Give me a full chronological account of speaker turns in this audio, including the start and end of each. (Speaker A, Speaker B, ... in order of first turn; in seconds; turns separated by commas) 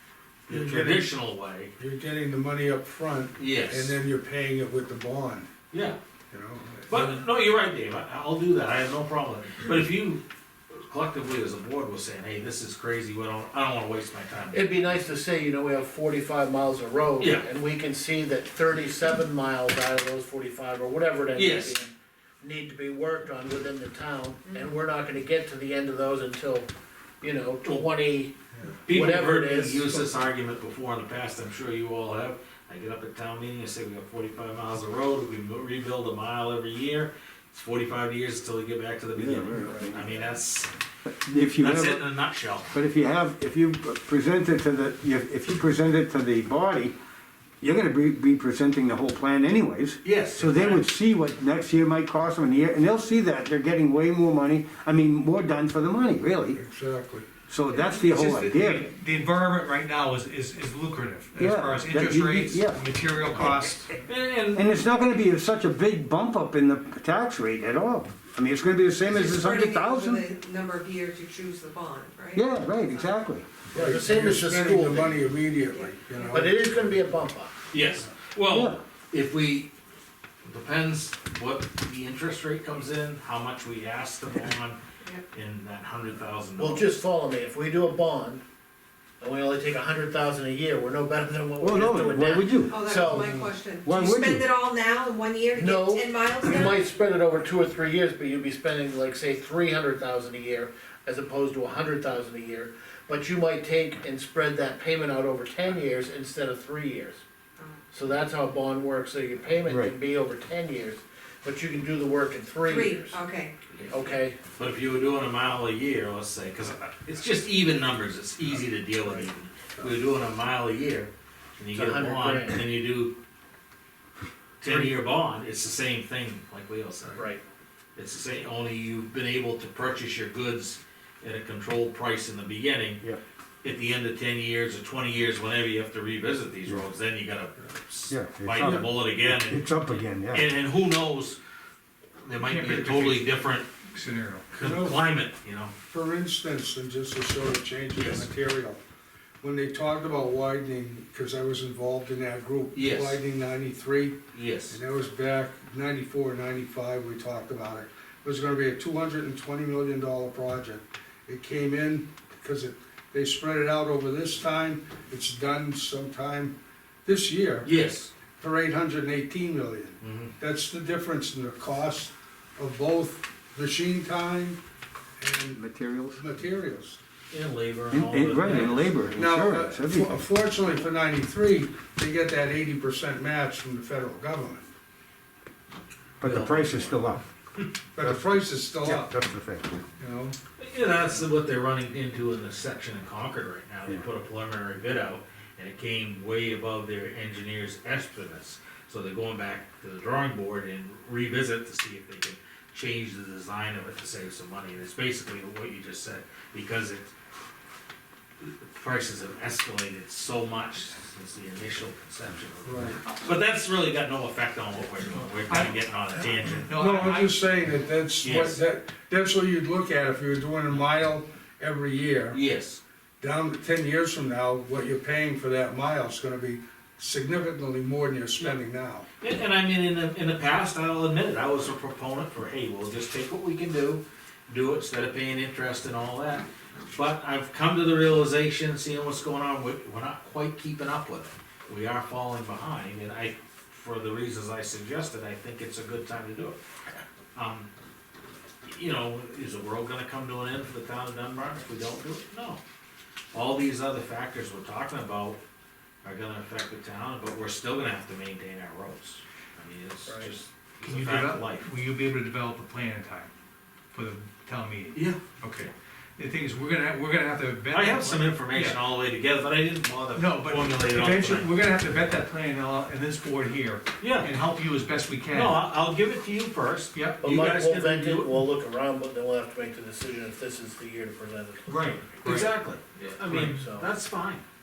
Speaker A: 0.5-1.7, Speaker B: 0.5-1.1, Speaker B: 1.8-5.5, Speaker A: 3.4-4.0, Speaker A: 5.7-6.0, Speaker B: 6.3-7.2, Speaker A: 6.9-10.2, Speaker A: 10.7-14.7, Speaker C: 14.5-26.7, Speaker A: 17.2-17.4, Speaker A: 21.3-21.8, Speaker C: 27.2-28.3, Speaker B: 28.5-28.8, Speaker A: 28.9-40.7, Speaker C: 28.9-30.0, Speaker D: 39.2-40.2, Speaker D: 41.0-42.0, Speaker A: 41.6-42.7, Speaker D: 42.7-47.0, Speaker D: 47.6-56.6, Speaker A: 50.0-50.8, Speaker B: 56.5-57.3, Speaker D: 57.5-58.9, Speaker E: 57.7-63.9, Speaker D: 61.4-62.8, Speaker A: 64.0-64.7, Speaker D: 64.5-70.2, Speaker F: 69.0-73.1, Speaker D: 72.3-73.5, Speaker B: 73.7-77.0, Speaker C: 73.7-75.2, Speaker F: 75.7-76.4, Speaker C: 76.3-77.6, Speaker A: 77.7-79.7, Speaker D: 78.5-78.8, Speaker A: 80.4-84.8, Speaker A: 85.3-86.9, Speaker C: 86.6-88.4, Speaker C: 89.2-93.4, Speaker D: 91.6-93.3, Speaker F: 92.7-96.8, Speaker D: 93.8-94.5, Speaker C: 95.5-107.2, Speaker C: 107.9-113.2, Speaker D: 109.7-109.9, Speaker F: 112.6-113.5, Speaker A: 113.7-123.1, Speaker C: 113.9-114.4, Speaker C: 121.7-122.6, Speaker A: 124.6-127.2, Speaker C: 124.7-124.9, Speaker A: 128.0-133.0, Speaker A: 133.6-139.7, Speaker D: 138.1-140.5, Speaker A: 140.3-141.4, Speaker A: 142.2-143.7, Speaker E: 142.3-143.4, Speaker E: 143.9-144.5, Speaker A: 144.5-145.7, Speaker B: 144.6-145.1, Speaker B: 145.9-148.8, Speaker A: 148.0-148.3, Speaker B: 149.4-154.2, Speaker A: 152.7-153.2, Speaker A: 154.3-154.8, Speaker B: 154.7-166.5, Speaker B: 167.1-167.7, Speaker A: 167.6-168.1, Speaker B: 168.4-174.6, Speaker A: 170.0-170.3, Speaker B: 175.2-175.6, Speaker D: 175.6-176.2, Speaker B: 176.2-177.0, Speaker A: 177.3-179.0, Speaker D: 177.9-180.2, Speaker B: 179.1-184.7, Speaker D: 186.2-187.3, Speaker A: 186.2-187.7, Speaker B: 187.9-189.1, Speaker D: 188.0-189.8, Speaker B: 190.0-190.3, Speaker A: 190.6-207.1, Speaker A: 208.4-217.1, Speaker B: 212.6-213.0, Speaker E: 215.5-215.8, Speaker E: 216.6-217.4, Speaker B: 216.8-222.4, Speaker A: 218.2-218.6, Speaker A: 222.3-222.8, Speaker B: 223.2-229.1, Speaker A: 229.2-246.6, Speaker A: 247.3-247.7, Speaker A: 248.7-252.6, Speaker A: 253.3-255.4, Speaker A: 256.0-261.7, Speaker C: 260.1-260.3, Speaker E: 260.8-263.3, Speaker E: 263.9-268.8, Speaker A: 264.9-265.2, Speaker A: 267.7-271.5, Speaker E: 270.1-275.6, Speaker A: 274.0-274.3, Speaker A: 275.3-278.3, Speaker E: 276.9-277.2, Speaker C: 277.2-282.1, Speaker E: 281.7-282.6, Speaker A: 282.2-284.4, Speaker E: 283.3-283.6, Speaker C: 283.4-283.9